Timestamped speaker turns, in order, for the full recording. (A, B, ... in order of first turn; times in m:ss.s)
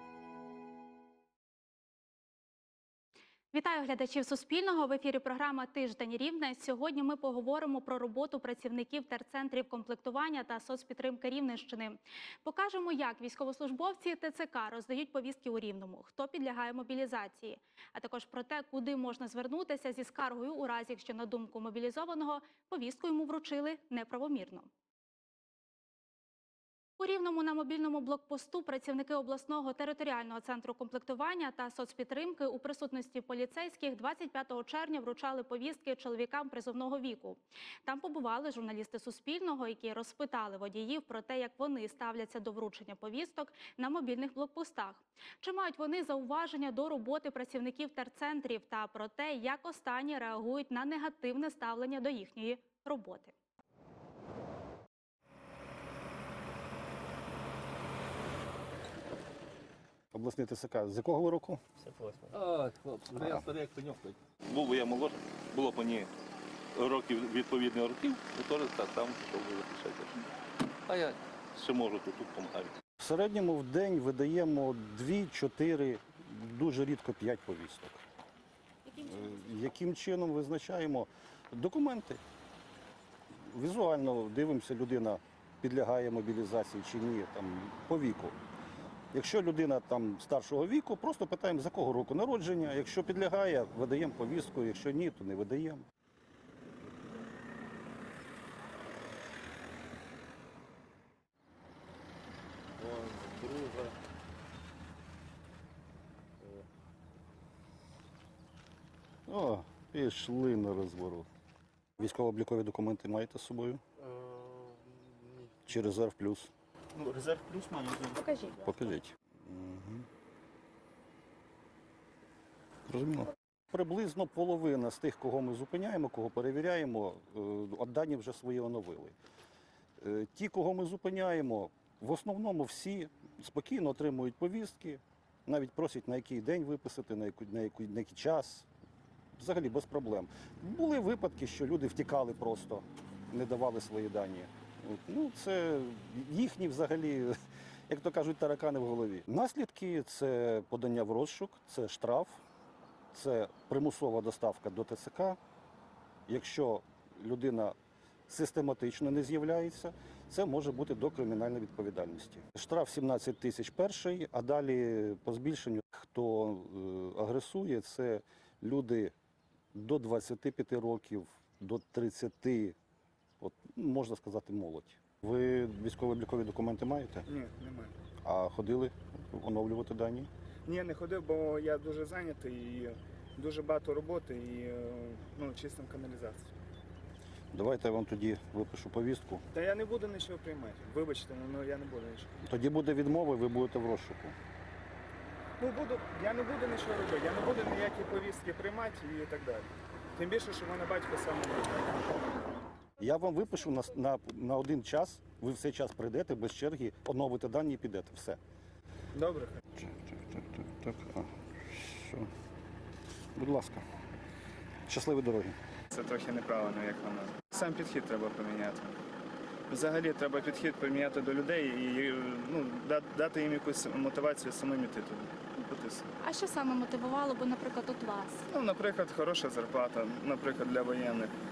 0:03.5-0:24.7 A
0:27.0-0:53.3 A
1:00.1-1:01.6 B
1:02.0-1:06.1 C
1:06.7-1:10.2 C
1:10.9-1:12.7 C
1:13.0-1:18.0 B
1:19.0-1:22.2 B
1:23.5-1:28.4 B
1:29.1-1:35.8 B
1:49.3-1:51.3 B
1:52.0-1:53.8 B
1:55.6-2:00.0 B
2:02.9-2:09.2 B
2:10.0-2:18.7 B
2:19.4-2:27.3 B
2:27.9-2:32.4 B
2:33.1-2:35.4 B
2:36.3-2:37.7 B
2:38.3-2:49.1 B
2:49.7-2:52.7 B
2:53.4-2:57.2 B
2:57.3-2:58.0 D
2:58.2-3:00.3 B
3:00.6-3:06.5 D
3:07.5-3:09.4 B
3:09.5-3:12.3 D
3:12.4-3:14.3 B
3:15.6-3:22.3 D
3:23.0-3:28.4 B
3:29.1-3:29.6 D
3:29.8-3:32.3 B
3:33.4-3:33.8 B
3:34.9-3:35.6 B
3:35.9-3:39.0 D
3:39.7-3:46.1 D
3:46.2-3:48.4 A
3:48.5-3:51.3 D